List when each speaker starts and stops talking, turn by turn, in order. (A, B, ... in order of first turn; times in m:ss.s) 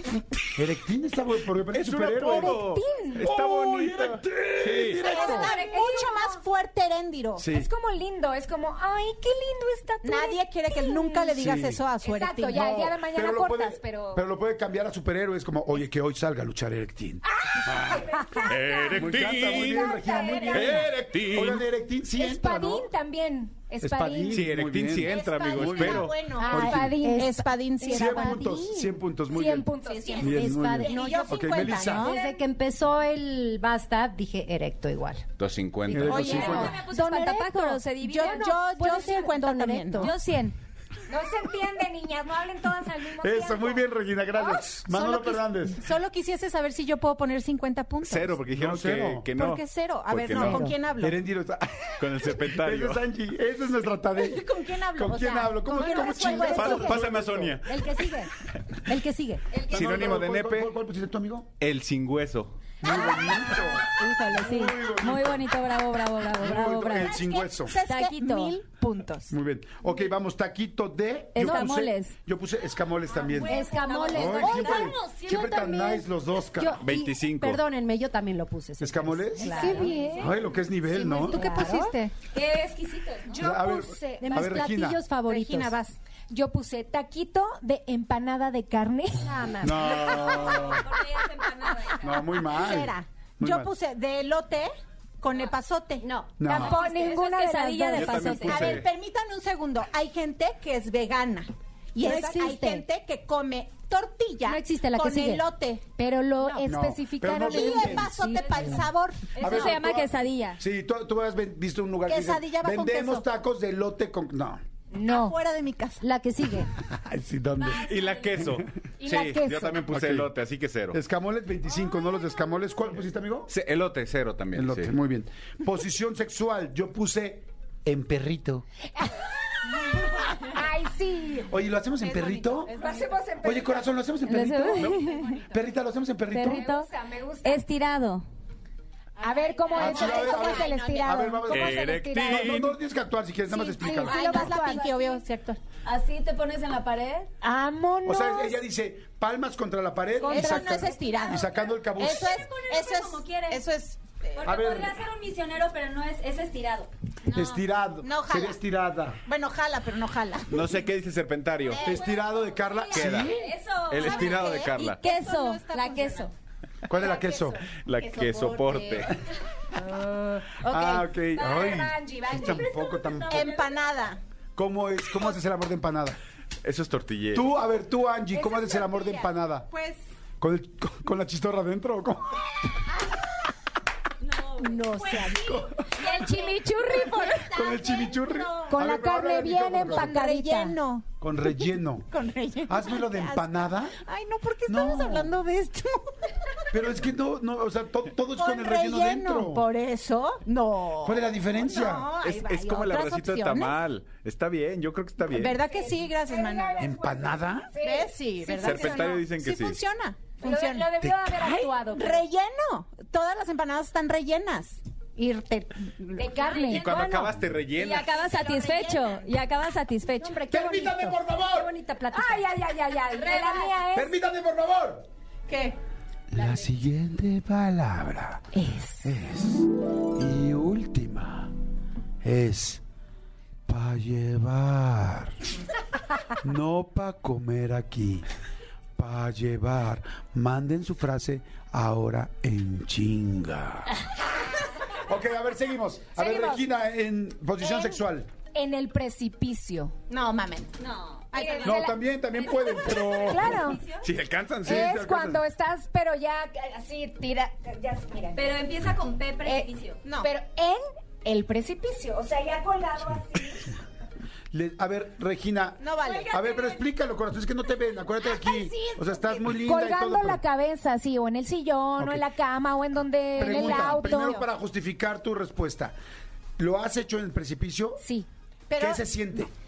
0:00.5-0:02.6 A
0:01.7-0:05.1 B
0:02.2-0:03.4 C
0:03.2-0:05.5 A
0:05.0-0:07.4 D
0:05.1-0:06.4 C
0:07.4-0:07.7 A
0:07.5-0:11.4 C
0:10.0-0:12.7 D
0:11.4-0:11.8 A
0:12.0-0:14.2 C
0:12.5-0:18.1 A
0:17.3-0:20.9 C
0:18.4-0:21.6 B
0:18.9-0:22.9 A
0:20.0-0:20.5 E
0:22.2-0:24.5 C
0:23.8-0:27.0 A
0:24.3-0:26.3 B
0:25.0-0:28.5 D
0:26.4-0:27.3 C
0:26.5-0:28.9 F
0:27.9-0:32.2 A
0:29.3-0:30.6 C
0:29.8-0:32.2 D
0:30.2-0:35.2 F
0:35.4-0:36.6 B
0:35.9-0:36.8 A
0:36.1-0:36.8 D
0:36.1-0:38.5 E
0:36.3-0:40.1 F
0:36.3-0:37.5 C
0:38.0-0:40.1 D
0:38.2-0:38.5 C
0:40.0-0:40.5 E
0:41.1-0:44.6 C
0:43.2-0:45.8 A
0:44.9-0:48.4 D
0:48.0-0:50.7 B
0:48.5-0:49.3 A
0:49.3-0:51.2 D
0:50.4-0:50.7 F
0:50.4-0:57.6 A
0:52.0-0:53.0 B
0:54.1-0:57.1 D
0:55.6-0:57.0 F
0:56.5-0:57.7 B
0:57.6-0:58.3 F
0:58.8-0:59.4 F
0:59.5-1:00.2 E
0:59.6-1:00.7 B
0:59.7-1:01.5 A
1:01.6-1:02.7 B
1:02.8-1:05.4 A
1:02.9-1:08.5 E
1:06.3-1:07.8 A
1:07.0-1:09.3 D
1:09.3-1:16.8 A
1:11.3-1:12.1 E
1:13.1-1:15.1 E
1:13.4-1:16.0 F
1:16.6-1:20.0 F
1:16.8-1:17.6 B
1:18.8-1:21.4 A
1:19.4-1:20.3 C
1:19.9-1:20.3 E
1:20.9-1:22.1 D
1:21.3-1:21.9 F
1:21.3-1:21.9 C
1:22.3-1:23.4 E
1:23.3-1:24.6 C
1:23.4-1:25.0 A
1:24.2-1:25.7 F
1:25.2-1:26.0 D
1:26.3-1:29.3 C
1:29.2-1:30.4 F
1:29.6-1:30.9 A
1:29.9-1:32.3 E
1:32.0-1:33.7 A
1:32.4-1:36.1 D
1:36.0-1:36.3 F
1:36.4-1:36.8 A
1:36.4-1:38.5 C
1:36.5-1:38.8 E
1:37.9-1:38.9 B
1:38.3-1:45.8 D
1:42.0-1:42.8 F
1:44.4-1:45.4 F
1:46.0-1:48.2 C
1:46.6-1:48.2 A
1:47.4-1:49.7 D
1:48.2-1:48.8 E
1:49.3-1:50.6 E
1:49.4-1:54.6 A
1:52.0-1:53.2 D
1:54.9-1:55.4 C
1:55.0-1:56.0 D
1:56.0-1:56.7 F
1:56.9-1:58.6 A
1:57.6-1:58.5 E
1:57.8-2:01.0 B
1:59.0-1:59.9 C
1:59.9-2:00.3 A
2:00.9-2:03.5 A
2:03.5-2:04.9 B
2:04.5-2:08.6 A
2:09.0-2:11.5 C
2:11.5-2:12.8 A
2:12.0-2:13.2 D
2:12.7-2:13.9 C
2:13.4-2:16.6 A
2:14.2-2:15.3 E
2:15.0-2:15.6 D
2:16.3-2:16.9 E
2:16.4-2:17.6 C
2:17.4-2:18.2 E
2:19.2-2:21.2 D
2:19.2-2:22.6 C
2:19.8-2:24.5 A
2:21.5-2:22.8 B
2:23.5-2:25.2 C
2:23.8-2:25.6 D
2:25.8-2:27.3 E
2:27.4-2:28.6 C
2:28.0-2:32.5 A
2:30.2-2:31.4 C
2:30.2-2:34.6 D
2:31.6-2:33.6 E
2:34.4-2:36.9 E
2:34.4-2:35.0 A
2:37.3-2:38.6 D
2:37.3-2:39.2 A
2:39.2-2:40.8 D
2:40.5-2:41.9 B
2:41.6-2:42.3 D
2:41.8-2:43.5 A
2:42.5-2:46.3 E
2:42.9-2:45.0 B
2:44.0-2:46.3 D
2:46.8-2:47.6 A
2:47.0-2:49.1 D
2:47.7-2:49.1 B
2:49.7-2:51.2 D
2:50.6-2:53.5 A
2:51.4-2:51.8 E
2:51.4-2:53.7 C
2:53.3-2:54.2 D
2:54.6-2:56.2 A
2:56.6-2:57.5 B
2:57.3-2:59.7 A
2:58.3-2:59.2 C
2:59.7-3:00.0 D
3:00.4-3:02.4 A
3:04.2-3:07.8 E
3:04.6-3:05.6 F
3:05.4-3:05.7 A
3:06.0-3:07.4 C
3:07.5-3:10.2 A
3:07.7-3:08.7 D
3:08.7-3:10.8 C
3:09.9-3:16.3 D
3:11.2-3:12.1 A
3:12.7-3:14.0 A
3:14.7-3:15.3 A
3:16.7-3:19.7 A
3:18.3-3:23.8 D
3:21.0-3:22.1 A
3:22.2-3:25.6 B
3:25.2-3:26.9 D
3:25.6-3:29.1 C
3:26.8-3:27.7 A
3:27.8-3:36.6 D
3:28.6-3:29.8 B
3:30.4-3:32.2 C
3:31.0-3:31.6 A
3:36.2-3:37.3 C
3:36.4-3:36.8 E
3:36.6-3:38.2 B
3:36.9-3:37.2 F
3:37.8-3:40.4 E
3:38.1-3:39.3 D
3:40.2-3:42.5 F
3:40.5-3:41.7 A
3:42.1-3:44.1 C
3:43.1-3:43.7 E
3:43.9-3:45.0 A
3:45.5-3:45.8 D
3:46.3-3:48.5 A
3:48.5-3:49.1 C
3:49.0-3:51.5 A
3:52.2-3:52.8 A
3:53.7-3:55.4 A
3:56.4-3:58.2 A
3:59.0-4:04.0 A
4:04.9-4:08.3 A
4:06.2-4:06.6 C
4:07.6-4:08.0 C
4:08.5-4:09.9 C
4:10.1-4:10.7 D
4:10.8-4:11.6 E
4:11.3-4:11.9 D
4:11.3-4:12.0 C
4:11.6-4:13.7 A
4:12.3-4:14.0 E
4:12.9-4:13.8 C
4:14.0-4:15.2 B
4:14.6-4:15.4 A
4:14.6-4:18.5 C
4:18.3-4:20.0 E
4:20.0-4:20.3 D
4:20.2-4:23.8 C
4:24.5-4:30.4 A
4:25.8-4:26.3 D
4:26.0-4:26.8 E
4:28.2-4:29.5 D
4:29.5-4:34.4 C
4:32.0-4:32.2 A
4:33.3-4:34.5 D
4:33.4-4:36.0 A
4:36.6-4:38.0 A
4:38.0-4:38.3 C
4:38.7-4:39.0 D
4:38.8-4:39.5 A